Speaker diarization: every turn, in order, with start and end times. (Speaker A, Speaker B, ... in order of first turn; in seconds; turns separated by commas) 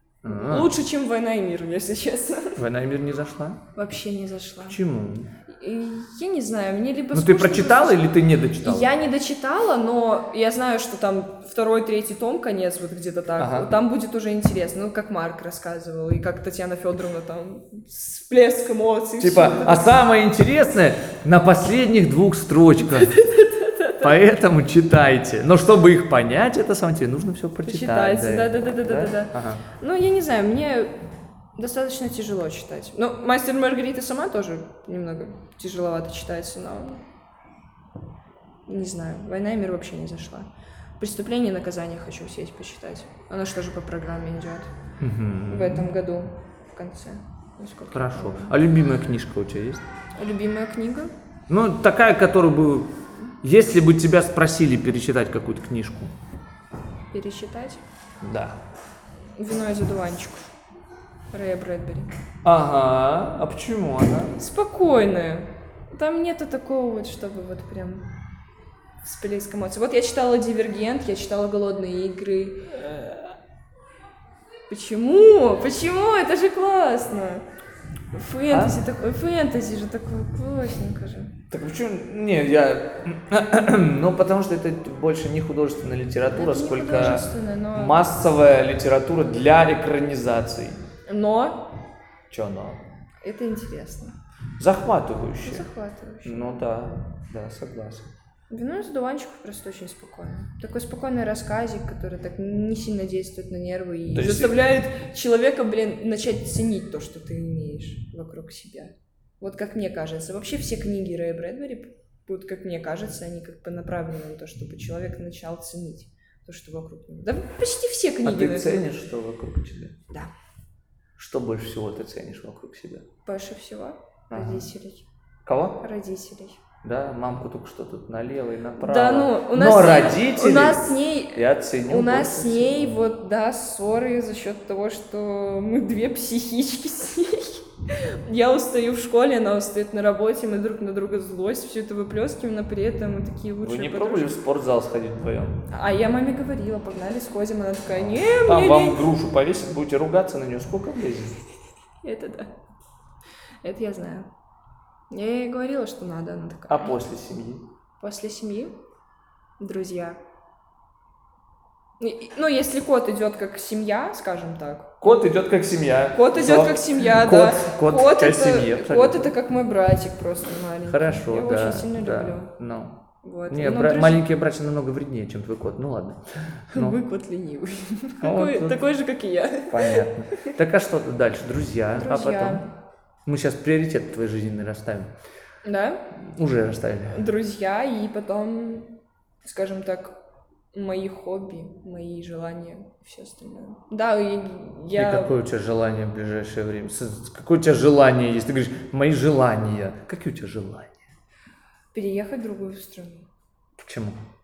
Speaker A: 0.2-0.7, Speaker B: 0.3-2.6, Speaker A: 2.6-3.6, Speaker B: 3.8-4.8, Speaker A: 4.7-5.3, Speaker B: 5.5-8.1, Speaker A: 7.1-8.9, Speaker B: 8.6-19.9, Speaker A: 13.4-13.7, Speaker A: 19.2-23.2, Speaker B: 22.8-24.2, Speaker A: 24.0-29.6, Speaker B: 27.6-30.9, Speaker B: 31.6-37.0, Speaker B: 38.7-44.7, Speaker A: 45.0-45.9, Speaker B: 45.5-48.6, Speaker A: 47.9-49.9, Speaker B: 50.2-51.1, Speaker A: 51.5-56.1, Speaker B: 57.1-57.8, Speaker A: 58.2-58.6, Speaker B: 59.4-60.5, Speaker B: 61.3-62.1, Speaker A: 62.4-64.3, Speaker B: 64.4-68.1, Speaker B: 69.0-72.8, Speaker A: 72.8-73.2, Speaker B: 74.7-77.5, Speaker B: 78.1-81.4, Speaker A: 78.5-78.8, Speaker A: 81.5-90.8, Speaker B: 86.3-88.0, Speaker B: 91.1-91.7, Speaker A: 92.3-92.8, Speaker B: 93.2-94.2, Speaker A: 94.6-95.7, Speaker B: 95.4-96.6, Speaker A: 96.2-98.1, Speaker B: 98.5-118.8, Speaker A: 104.1-104.7, Speaker A: 118.2-120.0, Speaker A: 121.2-123.1, Speaker B: 123.2-125.1, Speaker A: 124.3-124.7, Speaker A: 125.5-125.8, Speaker B: 125.8-126.6, Speaker A: 126.8-133.0, Speaker B: 128.8-144.4, Speaker A: 143.6-145.7, Speaker B: 145.7-149.0, Speaker A: 148.4-151.4, Speaker B: 152.0-152.6, Speaker B: 153.6-154.3, Speaker B: 155.1-157.0, Speaker A: 156.7-157.7, Speaker B: 158.0-158.8, Speaker B: 159.6-160.2, Speaker B: 162.0-165.3, Speaker A: 165.0-169.3, Speaker B: 166.1-172.5, Speaker A: 170.9-177.0, Speaker B: 173.2-174.2, Speaker B: 176.7-180.5, Speaker A: 178.2-178.8, Speaker A: 179.7-182.7, Speaker B: 182.0-182.7, Speaker A: 183.2-185.1, Speaker B: 185.6-186.1, Speaker A: 186.2-187.2, Speaker B: 187.1-188.9, Speaker B: 189.4-190.2, Speaker B: 190.7-195.3, Speaker A: 194.9-201.0, Speaker B: 201.9-203.3, Speaker A: 203.8-204.2